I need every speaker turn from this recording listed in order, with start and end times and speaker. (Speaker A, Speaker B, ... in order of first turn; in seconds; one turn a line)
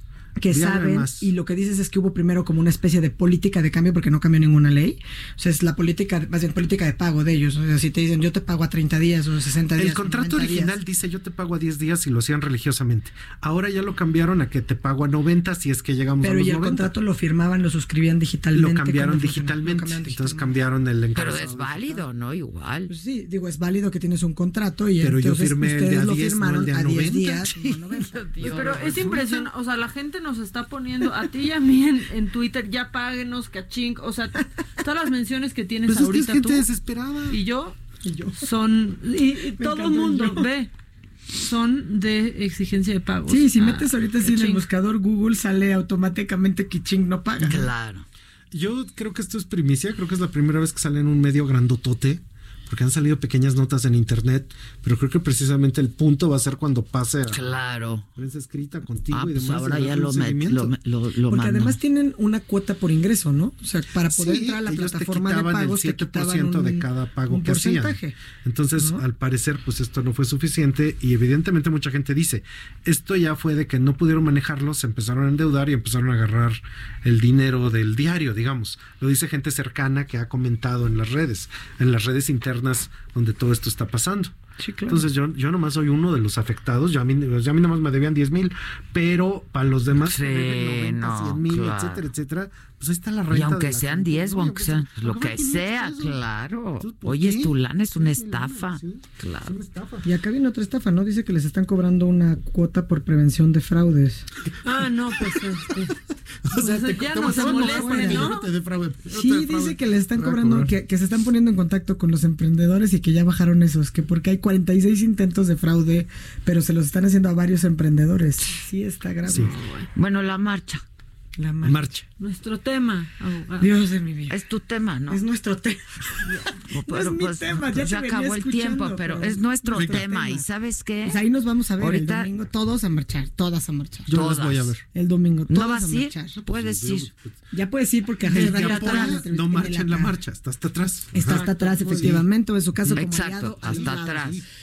Speaker A: 0.4-10.8
Speaker B: 0.5-1.3
Speaker B: 9.8-16.9
Speaker A: 16.2-20.5
Speaker B: 18.5-22.1
Speaker C: 21.1-22.9
Speaker A: 22.9-28.2
Speaker B: 25.0-29.2
Speaker C: 28.1-29.1
Speaker D: 28.4-36.7
Speaker B: 35.9-37.4
Speaker D: 37.3-37.8
Speaker A: 38.0-38.4
Speaker D: 38.4-40.7
Speaker A: 39.6-40.5
Speaker D: 41.4-44.6
Speaker A: 43.3-47.7
Speaker C: 47.4-48.1
Speaker B: 48.5-57.4
Speaker C: 57.3-58.1
Speaker B: 58.2-60.8
Speaker C: 59.1-61.8
Speaker A: 61.3-68.2
Speaker B: 64.1-96.2
Speaker A: 84.6-85.0
Speaker C: 89.9-92.0
Speaker C: 93.3-99.5
Speaker B: 96.8-100.0
Speaker A: 100.0-104.3
Speaker D: 104.6-105.9
Speaker B: 105.2-105.5
Speaker B: 106.5-110.7
Speaker D: 106.5-108.5
Speaker A: 107.3-108.2
Speaker A: 109.1-119.5
Speaker D: 119.3-119.9
Speaker C: 119.9-120.8
Speaker A: 121.4-121.9
Speaker B: 121.6-122.0
Speaker D: 122.2-123.7
Speaker A: 123.6-124.4
Speaker C: 124.3-125.2
Speaker A: 125.1-130.4
Speaker C: 126.6-131.2
Speaker B: 129.7-130.1
Speaker A: 131.0-134.1
Speaker C: 131.8-132.3
Speaker B: 134.1-134.8
Speaker C: 134.1-134.8
Speaker A: 134.9-136.4
Speaker C: 135.5-137.1
Speaker B: 136.4-137.3
Speaker A: 137.5-140.1
Speaker B: 138.2-142.3
Speaker C: 138.4-139.0
Speaker A: 141.1-144.3
Speaker D: 141.2-142.1
Speaker B: 142.8-144.4
Speaker C: 142.9-144.4